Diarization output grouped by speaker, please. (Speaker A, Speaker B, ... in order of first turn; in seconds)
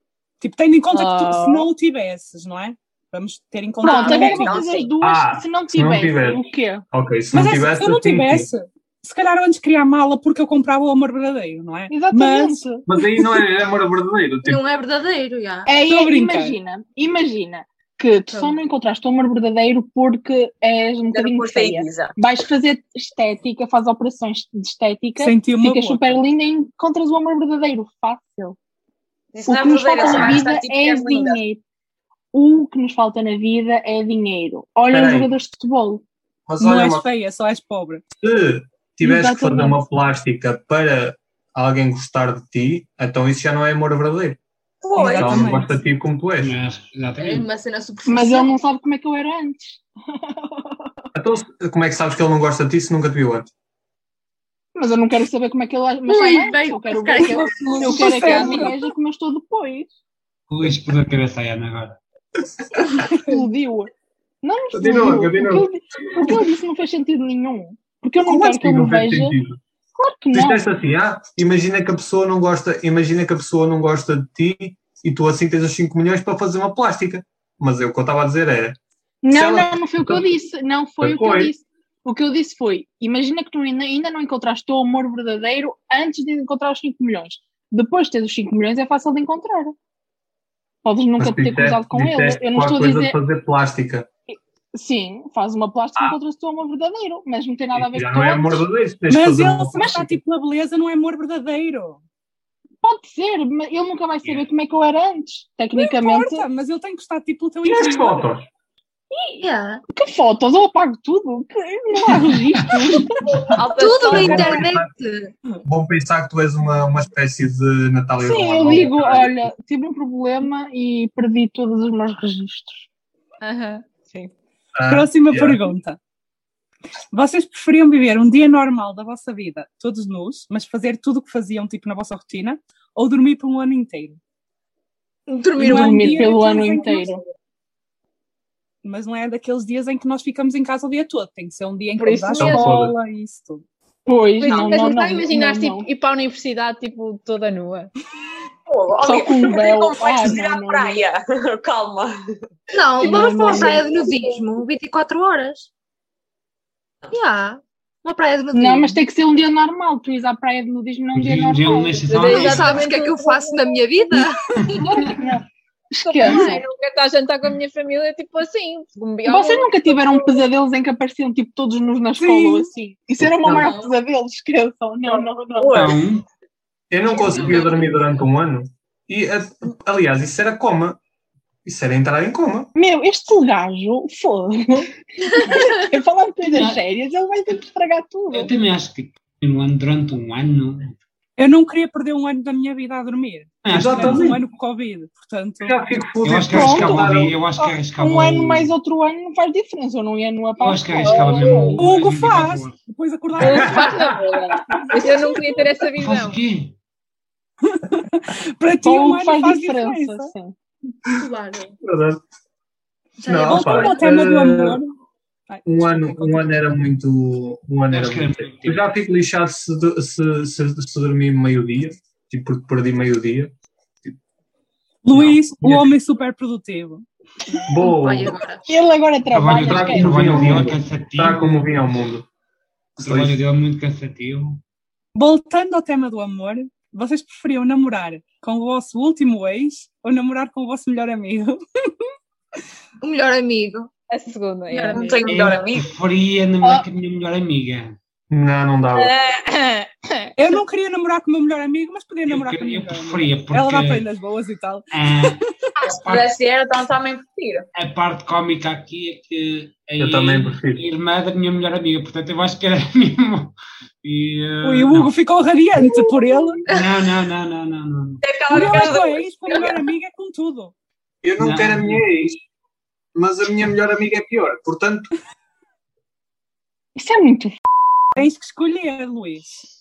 Speaker A: 0.4-4.6, 7.3-12.6, 15.8-16.6, 25.2-26.1, 36.6-38.0, 44.9-45.8, 57.8-58.7, 99.1-102.0, 105.8-108.2, 124.9-126.0, 127.1-134.2, 135.6-137.1, 138.8-143.6, 172.2-172.7, 191.4-195.8, 201.8-204.0, 207.7-210.3, 213.4-214.9, 215.5-216.7, 225.0-227.0, 235.1-241.6, 250.3-255.4, 264.6-266.6, 268.5-270.7, 278.1-279.6
Speaker B: 0.9-1.7, 123.4-124.3, 142.0-142.8, 144.4-147.9, 153.1-153.8, 162.1-164.2, 166.0-170.4, 173.4-173.9, 177.3-177.8, 201.0-201.9, 203.4-206.4, 244.1-245.2, 249.4-250.3
Speaker C: 3.8-4.9, 21.1-22.1, 29.3-31.4, 44.8-45.5, 113.5-114.7, 148.7-152.2, 153.0-153.8, 175.7-175.9, 244.9-245.9, 255.8-257.7, 268.2-269.8
Speaker D: 3.8-6.8, 11.9-12.9, 15.7-28.6, 29.4-31.6, 32.3-36.0, 39.0-39.8, 48.0-50.4, 54.7-59.9, 63.0-63.9, 64.4-69.3, 70.0-70.6, 79.2-89.7, 90.8-93.1, 94.7-98.7, 102.8-106.5, 109.9-113.5, 118.2-122.8, 135.6-137.2, 144.1-145.9, 149.0-151.0, 153.0-153.9, 158.5-162.2, 164.7-166.6, 169.2-175.9, 182.8-188.5, 196.5-201.8, 208.8-210.5, 228.7-230.7, 276.9-277.6
Speaker E: 5.0-8.5, 12.9-14.6, 34.9-35.3, 36.5-37.0, 38.2-44.4, 45.2-46.5, 51.1-53.5, 64.7-66.4, 68.2-69.6, 70.3-78.8, 79.3-80.3, 81.0-81.5, 91.2-94.1, 97.7-100.2, 107.6-108.5, 114.0-114.9, 115.7-119.5, 124.7-125.6, 142.4-142.9, 176.9-181.0, 181.6-182.7, 193.7-194.4, 195.6-197.4, 203.4-204.2, 211.8-212.2, 213.2-214.8, 215.6-224.2, 227.7-228.4, 229.6-232.3, 233.0-233.4, 248.3-249.1, 260.0-260.8, 271.2-272.4, 273.1-275.1
Speaker F: 14.4-15.7, 18.3-18.6, 47.2-48.5, 56.1-58.8, 109.4-109.8, 113.7-115.3, 135.3-136.4, 152.7-155.7, 157.1-159.0, 162.2-165.0, 166.2-166.6, 211.1-211.7, 213.2-214.2, 227.8-228.7, 243.0-243.9, 244.7-245.2
Speaker G: 46.4-47.5, 60.5-62.0, 161.1-162.9, 173.4-173.7, 175.7-176.2, 186.5-186.8, 188.3-191.0, 193.6-194.4, 196.2-198.7, 200.6-202.8, 205.9-206.8, 217.9-218.9, 225.1-225.4, 229.3-231.9, 233.0-234.6, 245.2-248.0, 252.2-254.1, 254.9-256.3, 257.7-265.1, 266.7-268.2, 271.4-272.1